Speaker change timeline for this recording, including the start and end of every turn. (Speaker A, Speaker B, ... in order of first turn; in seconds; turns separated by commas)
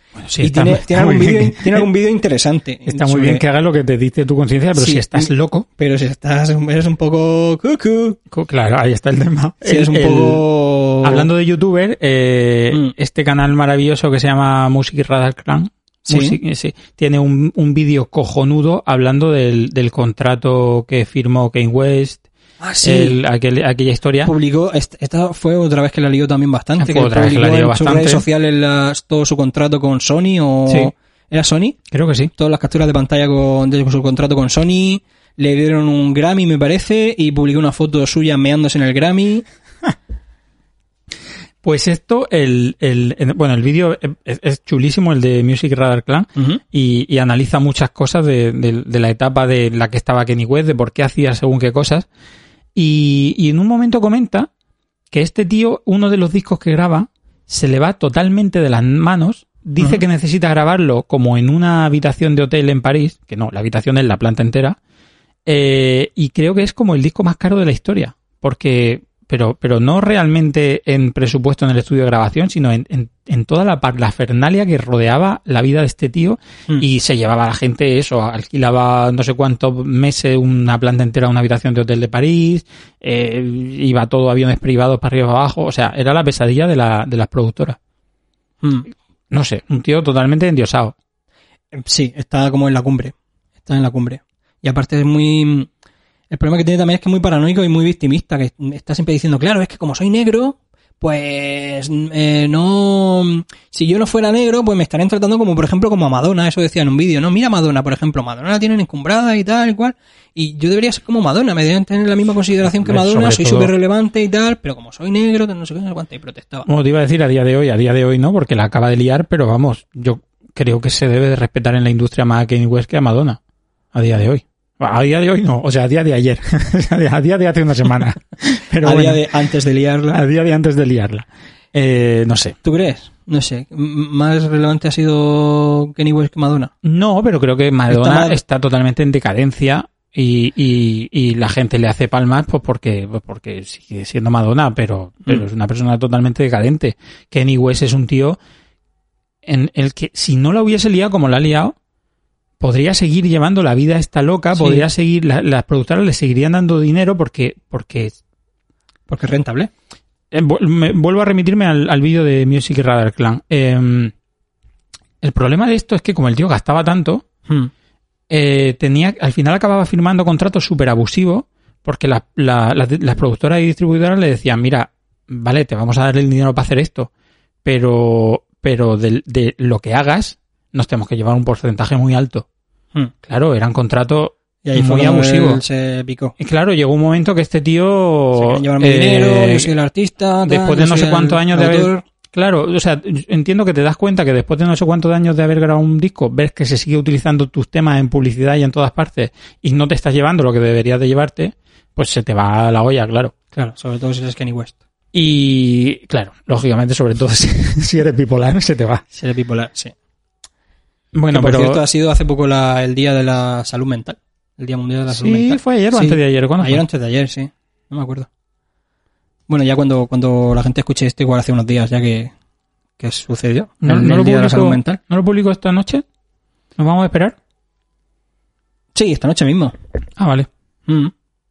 Speaker A: 0.2-1.8, Speaker B: 0.4-3.4, Speaker A: 2.9-5.7, Speaker B: 4.7-8.2, Speaker A: 8.3-10.4, Speaker B: 9.6-11.3, Speaker A: 11.0-22.2, Speaker B: 16.1-16.4, Speaker B: 22.6-23.2, Speaker A: 22.8-24.3, Speaker B: 24.2-31.8, Speaker A: 26.8-28.2, Speaker A: 30.6-30.9, Speaker A: 31.9-32.3, Speaker B: 32.4-39.5, Speaker A: 41.6-52.1, Speaker A: 52.7-54.5, Speaker A: 55.1-64.8, Speaker A: 65.5-87.8, Speaker B: 88.6-88.9, Speaker A: 89.3-90.9, Speaker B: 91.7-93.1, Speaker B: 93.6-95.7, Speaker B: 96.3-116.7, Speaker A: 112.7-113.7, Speaker A: 116.7-123.4, Speaker A: 123.9-129.2, Speaker B: 128.8-130.2, Speaker A: 130.1-132.6, Speaker B: 132.6-136.7, Speaker A: 136.8-148.4, Speaker B: 137.9-138.4, Speaker A: 149.4-151.7, Speaker A: 152.6-158.2, Speaker B: 154.5-154.8, Speaker B: 159.1-159.7, Speaker A: 160.3-164.1, Speaker A: 165.2-167.2, Speaker A: 168.3-177.1, Speaker A: 177.6-182.4, Speaker A: 183.2-185.6, Speaker B: 184.6-186.3, Speaker A: 186.4-189.7, Speaker B: 188.3-192.0, Speaker A: 190.4-203.3, Speaker B: 203.5-204.8, Speaker A: 205.1-209.0, Speaker B: 209.1-209.9, Speaker A: 211.1-211.8, Speaker B: 211.3-218.3, Speaker A: 215.1-216.8, Speaker B: 219.5-222.3, Speaker B: 223.0-225.0, Speaker A: 223.8-226.0, Speaker A: 226.8-227.3, Speaker B: 228.9-229.7, Speaker A: 230.2-230.5, Speaker B: 230.9-231.1